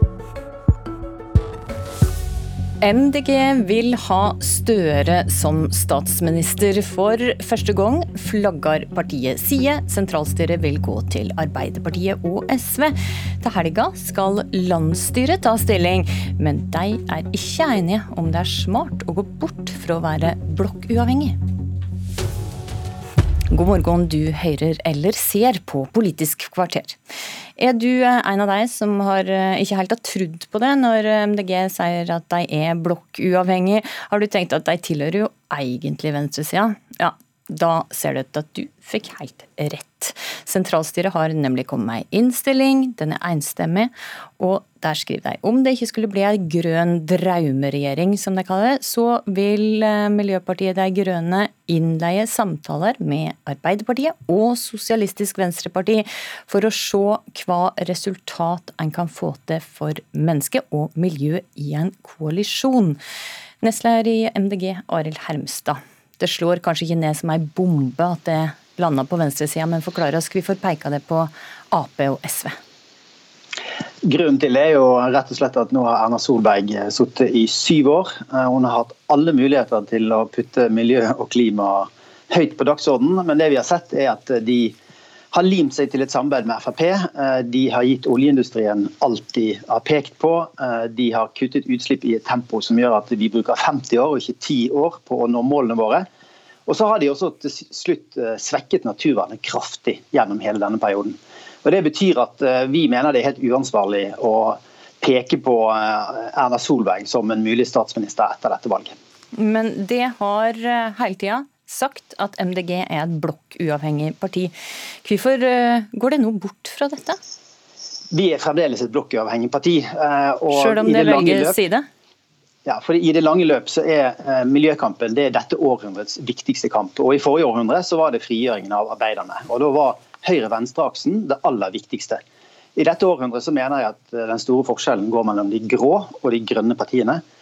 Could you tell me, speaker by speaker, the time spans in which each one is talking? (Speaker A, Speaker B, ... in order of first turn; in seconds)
Speaker A: 2.8-21.4, 23.5-27.0, 27.6-63.0, 63.6-72.5, 109.3-114.5, 115.0-117.2, 120.5-121.8
Speaker B: 74.0-84.8, 85.3-96.0, 96.7-108.9, 118.1-121.6, 122.6-132.2, 132.8-137.2